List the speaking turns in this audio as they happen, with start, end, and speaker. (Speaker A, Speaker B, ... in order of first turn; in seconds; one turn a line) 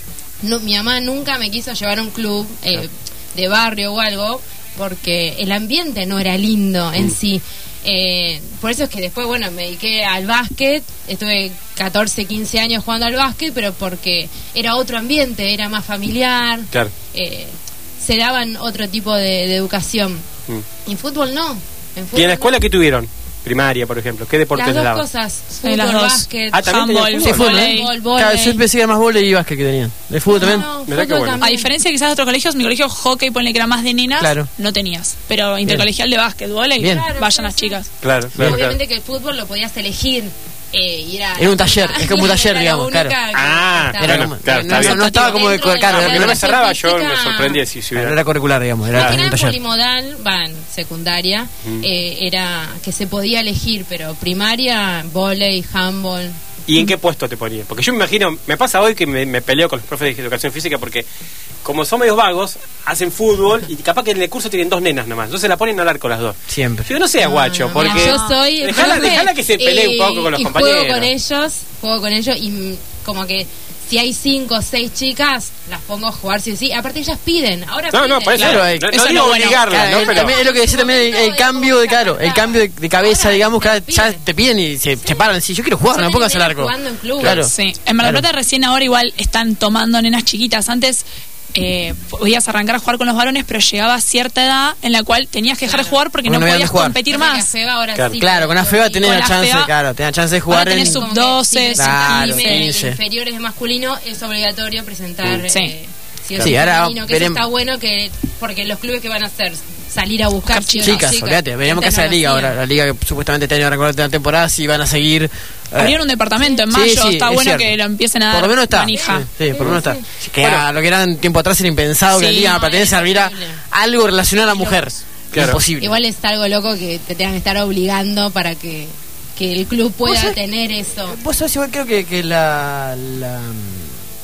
Speaker A: 0.4-20.2
Speaker A: 20.8-22.6
Speaker B: 22.1-25.0
Speaker A: 24.5-26.7
Speaker C: 25.6-27.9
Speaker B: 26.5-27.5
Speaker D: 27.2-30.7
Speaker A: 27.4-28.6
Speaker A: 30.3-31.7
Speaker B: 30.9-31.4
Speaker C: 31.4-37.9
Speaker D: 34.2-34.5
Speaker D: 36.8-37.1
Speaker A: 36.8-47.6
Speaker B: 38.0-38.8
Speaker D: 38.3-38.6
Speaker D: 41.4-43.1
Speaker B: 43.3-45.0
Speaker D: 44.0-46.4
Speaker C: 44.7-45.4
Speaker B: 45.9-48.2
Speaker D: 47.9-49.6
Speaker A: 48.9-56.4
Speaker B: 48.9-49.2
Speaker B: 56.6-61.1
Speaker B: 61.6-71.1
Speaker D: 66.5-66.9
Speaker A: 67.2-78.6
Speaker C: 67.7-69.1
Speaker B: 77.9-80.3
Speaker C: 78.3-79.7
Speaker D: 78.3-88.2
Speaker A: 79.8-84.2
Speaker A: 85.9-87.4
Speaker C: 87.5-97.5
Speaker A: 95.6-96.0
Speaker D: 96.2-97.0
Speaker A: 97.1-99.3
Speaker D: 98.2-101.0
Speaker C: 99.0-99.7
Speaker C: 100.5-102.7
Speaker A: 100.6-112.5
Speaker D: 101.7-103.0
Speaker C: 105.5-105.7
Speaker D: 106.4-107.4
Speaker C: 110.5-111.0
Speaker D: 110.8-116.0
Speaker C: 115.8-119.2
Speaker D: 116.7-117.7
Speaker D: 118.3-126.0
Speaker A: 118.9-120.0
Speaker B: 120.4-120.6
Speaker C: 122.1-122.5
Speaker A: 122.3-123.6
Speaker A: 124.4-124.8
Speaker B: 125.3-125.6
Speaker A: 125.8-131.2
Speaker D: 130.0-130.4
Speaker D: 131.1-134.0